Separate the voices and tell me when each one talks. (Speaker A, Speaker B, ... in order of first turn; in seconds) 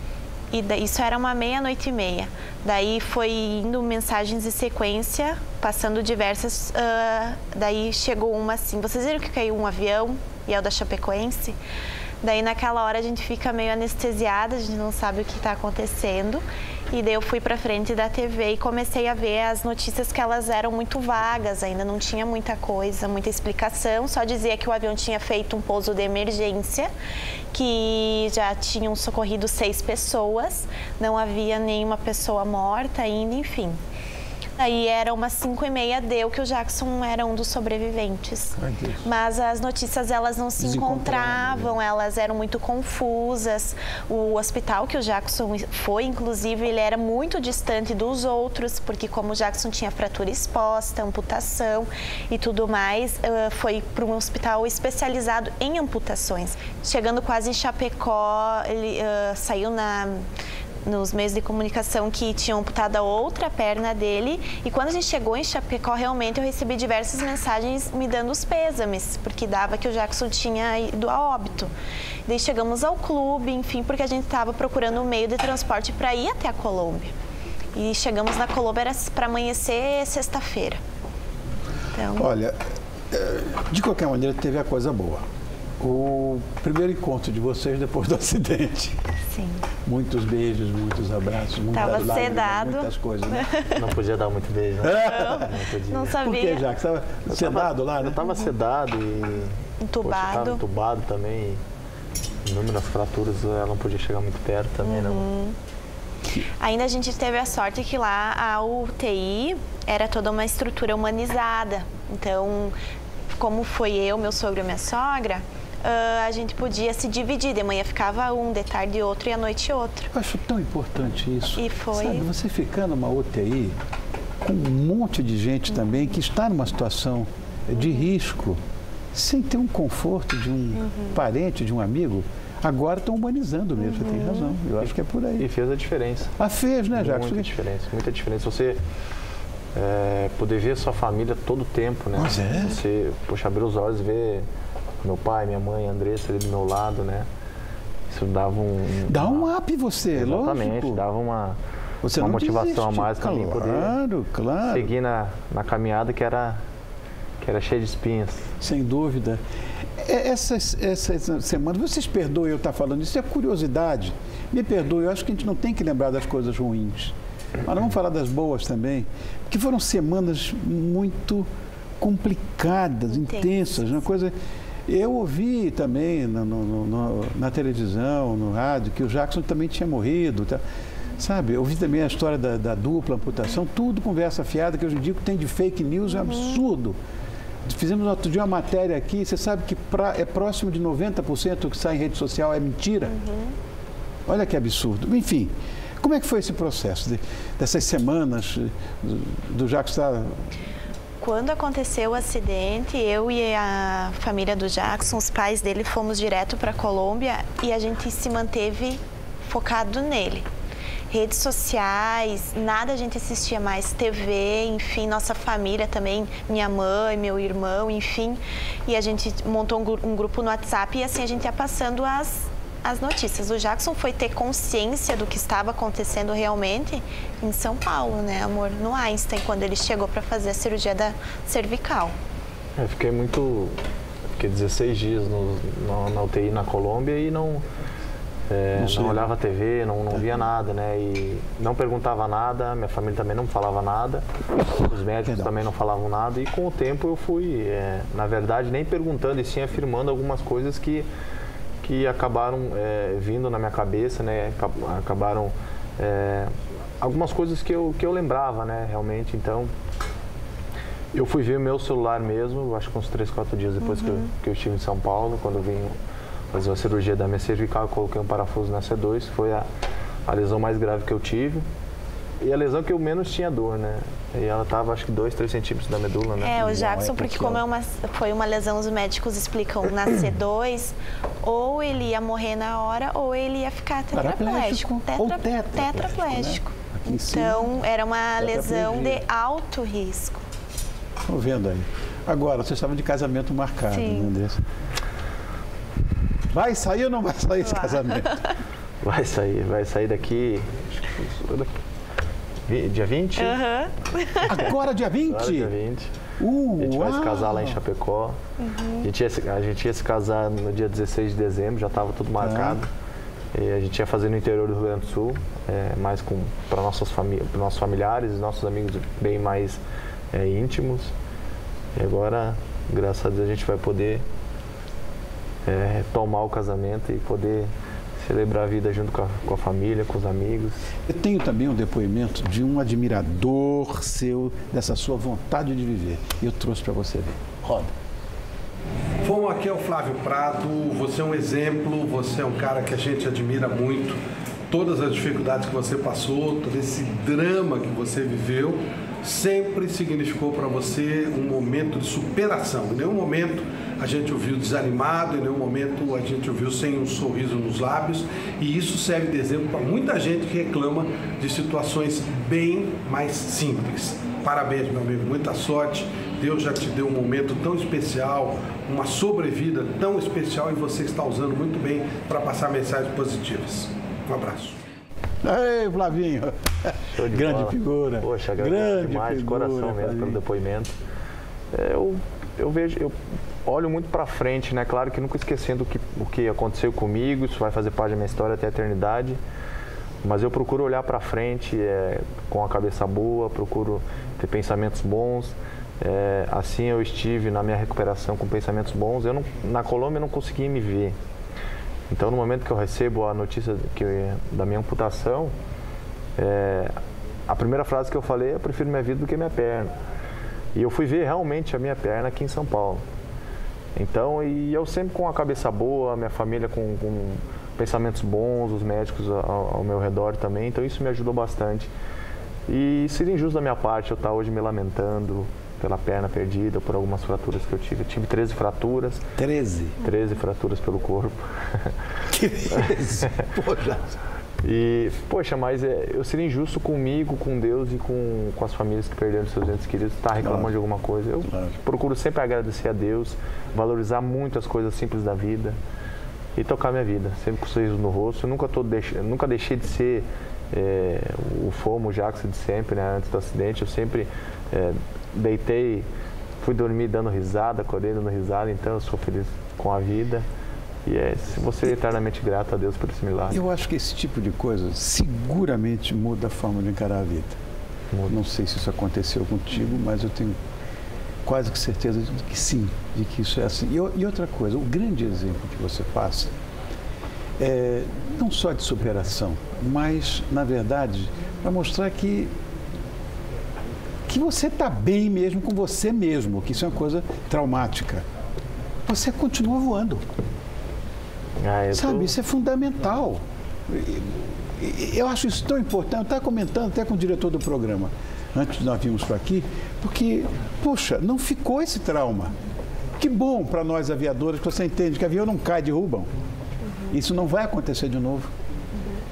Speaker A: 0.5-11.6, 12.2-26.9, 27.5-33.8, 34.6-60.2, 60.9-71.7, 72.3-77.1, 77.8-80.8, 82.0-82.3, 89.3-89.6, 91.7-92.9, 95.9-96.6, 99.8-100.6, 104.8-105.5, 106.6-112.7, 113.4-120.1, 121.6-122.3, 133.9-134.5, 173.3-173.7, 193.1-193.6, 201.2-210.4, 211.1-232.1, 276.4-280.9, 281.4-286.5, 287.1-290.4, 294.0-294.3, 303.4-304.4, 308.6-309.1
Speaker B: 38.6-39.1, 40.6-41.8, 82.2-82.6, 83.1-85.2, 85.8-89.0, 89.8-93.7, 94.9-95.5, 96.2-98.2, 120.1-123.8, 124.4-128.6, 129.1-135.5, 136.4-137.5, 142.1-142.8, 149.1-151.0, 152.0-154.9, 158.6-159.4, 160.0-171.5, 172.0-174.3, 174.9-180.6, 181.2-187.0, 187.7-193.2, 194.3-200.3, 238.8-239.3, 245.3-245.5, 276.6-277.6, 284.1-287.6, 288.5-289.2, 291.2-294.6, 296.5-298.5, 304.4-305.7, 306.4-307.8, 312.4-312.8, 331.1-337.9, 375.4-380.4, 429.4-430.0, 432.3-434.2, 440.4-440.7, 441.4-441.7, 463.5-467.6, 468.3-470.6, 471.4-476.5, 477.6-482.5, 484.3-488.2, 489.1-490.2, 491.9-502.5, 503.2-506.3, 507.1-508.5
Speaker C: 93.7-96.2, 97.3-101.6, 102.5-105.2, 134.8-136.3, 136.9-138.8, 139.8-144.5, 145.0-147.3, 148.1-149.5, 150.1-151.6, 152.2-153.9, 154.7-156.6, 157.4-158.5, 232.8-233.8, 234.4-237.7, 238.5-251.1, 251.8-259.7, 261.1-265.9, 266.5-269.7, 270.3-271.6, 272.4-277.1, 299.0-301.7, 302.7-303.6, 305.3-306.1, 306.8-308.4, 309.0-312.9, 313.5-319.8, 320.3-321.1, 322.0-324.2, 325.7-330.8, 377.1-380.9, 381.7-383.1, 383.6-389.4, 390.2-401.1, 402.1-405.5, 406.4-406.9, 407.5-409.9, 410.8-413.0, 414.0-421.9, 422.7-429.2, 430.0-431.9, 434.6-445.8, 446.6-456.1, 456.6-460.5, 461.1-463.6, 491.6-492.3
Speaker D: 339.2-374.8